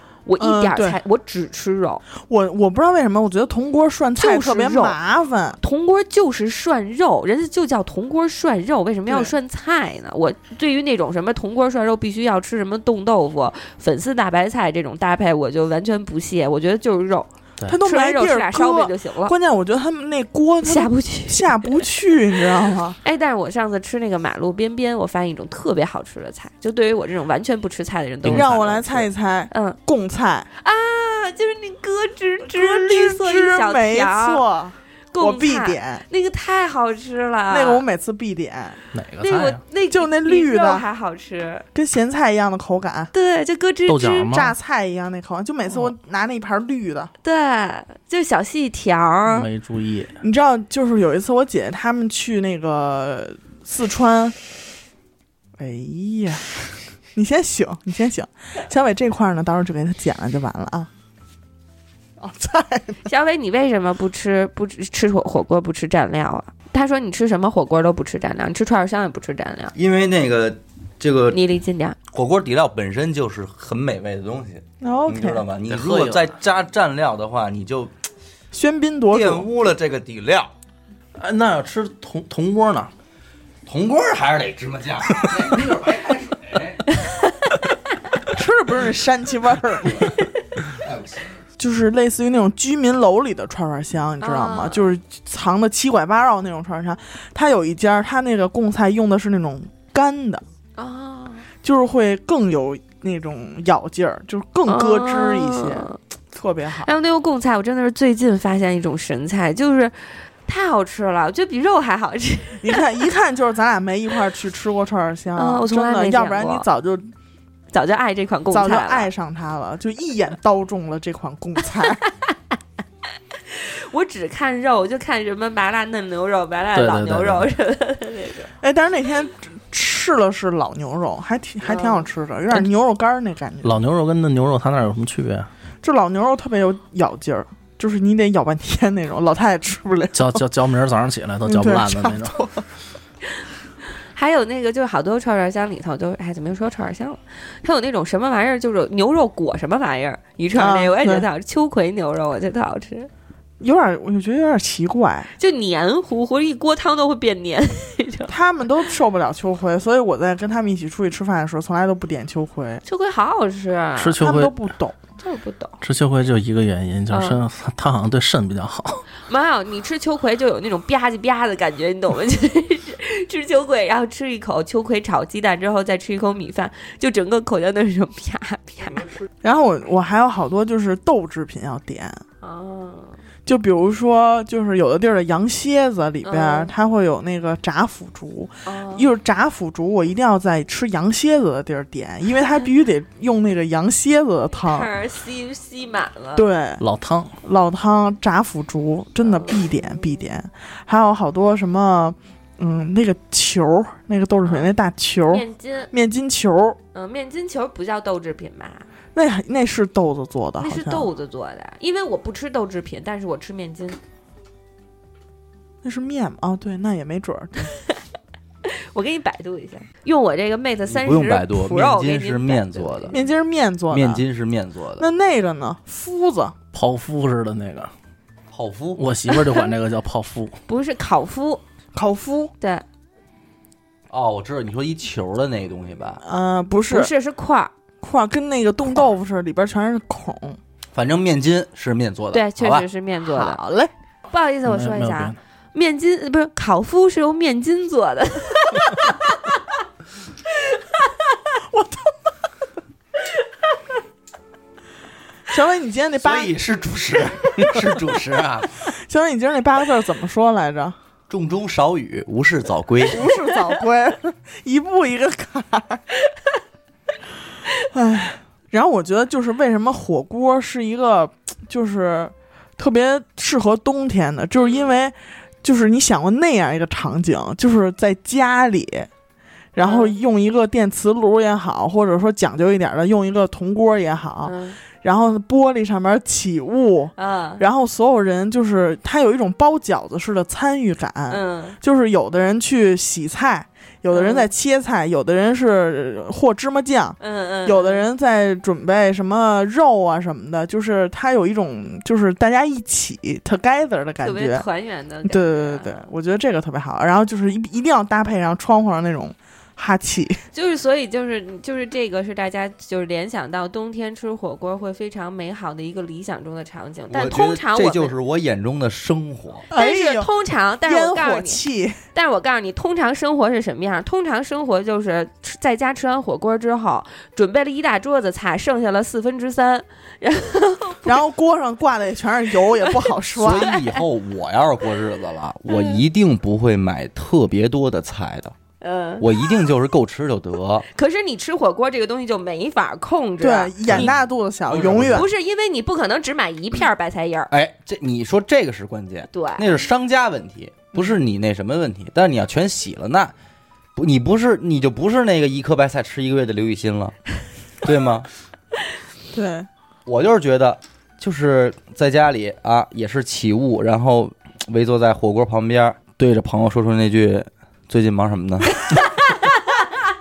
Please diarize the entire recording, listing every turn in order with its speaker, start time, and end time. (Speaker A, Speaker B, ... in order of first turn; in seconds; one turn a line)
Speaker A: 0.2-2.0
Speaker B: 0.4-1.0
Speaker B: 2.2-5.6
Speaker A: 4.2-5.0
Speaker A: 5.6-19.3
Speaker B: 9.1-9.3
Speaker B: 17.7-23.0
Speaker A: 20.6-21.8
Speaker A: 23.0-28.6
Speaker C: 28.2-29.1
Speaker B: 28.2-30.5
Speaker A: 29.5-29.8
Speaker A: 30.6-34.4
Speaker B: 32.4-36.0
Speaker A: 35.1-37.8
Speaker B: 37.5-38.8
Speaker C: 38.9-39.6
Speaker A: 39.2-41.6
Speaker B: 39.9-40.8
Speaker B: 41.7-43.1
Speaker A: 43.1-44.3
Speaker C: 43.9-44.5
Speaker B: 44.3-47.1
Speaker A: 47.2-49.5
Speaker C: 49.3-50.1
Speaker B: 50.2-54.4
Speaker B: 55.6-56.5
Speaker B: 57.1-60.9
Speaker B: 62.2-63.1
Speaker A: 63.0-69.7
Speaker D: 69.7-71.4
Speaker A: 71.3-72.0
Speaker D: 72.1-77.9
Speaker B: 74.8-75.4
Speaker C: 75.7-76.2
Speaker B: 78.5-79.5
Speaker D: 79.1-80.5
Speaker C: 81.2-82.9
Speaker D: 83.6-87.0
Speaker B: 88.3-90.1
Speaker D: 89.9-90.2
Speaker D: 90.7-91.3
Speaker B: 91.6-100.4
Speaker A: 94.2-94.9
Speaker A: 100.8-101.5
Speaker B: 101.6-106.9
Speaker A: 104.7-106.0
Speaker A: 106.8-112.8
Speaker B: 112.6-117.1
Speaker A: 115.3-116.7
Speaker A: 117.7-119.1
Speaker B: 118.5-122.0
Speaker A: 122.1-122.3
Speaker A: 123.5-128.5
Speaker C: 126.7-127.5
Speaker B: 128.6-133.8
Speaker A: 131.7-132.0
Speaker C: 133.6-135.5
Speaker B: 135.8-140.4
Speaker C: 140.1-142.3
Speaker B: 141.4-142.6
Speaker A: 144.1-153.1
Speaker B: 150.5-151.2
Speaker B: 153.6-155.3
Speaker A: 155.4-158.3
Speaker B: 158.3-162.8
Speaker A: 162.8-164.2
Speaker C: 164.0-164.6
Speaker B: 164.2-165.0
Speaker A: 165.2-165.8
Speaker C: 165.8-169.1
Speaker A: 167.1-167.4
Speaker A: 169.2-179.2
Speaker B: 179.4-182.2
Speaker A: 182.4-183.2
Speaker B: 183.4-194.9
Speaker A: 186.2-186.7
Speaker A: 188.6-189.1
Speaker A: 194.6-196.4
Speaker B: 196.3-196.8
Speaker C: 196.8-197.3
Speaker B: 197.4-206.8
Speaker A: 199.2-199.6
Speaker A: 205.3-205.9
Speaker A: 206.9-208.9
Speaker B: 209.1-211.1
Speaker A: 210.6-214.0
Speaker B: 215.8-217.7
Speaker A: 217.7-218.0
Speaker A: 218.6-223.2
Speaker D: 220.9-223.2
Speaker B: 223.1-224.2
Speaker D: 223.9-225.1
Speaker B: 225.0-226.5
Speaker C: 226.7-227.9
Speaker D: 228.5-229.0
Speaker C: 228.9-230.6
Speaker A: 229.3-229.7
Speaker A: 230.7-231.6
Speaker B: 231.9-232.5
Speaker D: 234.1-236.2
Speaker B: 236.2-237.1
Speaker A: 236.9-237.7
Speaker B: 238.0-240.6
Speaker D: 240.9-242.9
Speaker A: 242.3-243.6
Speaker B: 243.3-243.9
Speaker A: 244.3-249.2
Speaker C: 244.6-245.4
Speaker B: 251.7-252.2
Speaker B: 255.5-256.5
Speaker D: 256.2-258.8
Speaker B: 258.8-260.9
Speaker D: 261.3-263.3
Speaker B: 263.1-266.0
Speaker B: 267.9-279.1
Speaker B: 279.7-304.6
Speaker A: 279.8-280.1
Speaker A: 284.4-284.8
Speaker A: 287.2-287.6
Speaker A: 291.3-291.8
Speaker A: 294.1-294.5
Speaker A: 297.2-298.0
Speaker A: 304.2-306.1
Speaker B: 305.2-310.4
Speaker A: 310.5-318.1
Speaker D: 317.1-319.6
Speaker B: 319.7-322.0
Speaker A: 319.7-331.2
Speaker B: 331.0-333.8
Speaker D: 333.3-338.5
Speaker A: 335.7-336.0
Speaker A: 338.8-339.3
Speaker D: 339.2-340.9
Speaker A: 340.9-344.1
Speaker B: 343.4-345.3
Speaker D: 343.9-344.1
Speaker D: 344.7-345.3
Speaker A: 345.1-347.5
Speaker D: 347.5-353.3
Speaker A: 349.3-349.8
Speaker D: 353.9-357.2
Speaker D: 357.8-358.3
Speaker B: 359.3-359.7
Speaker D: 360.1-369.0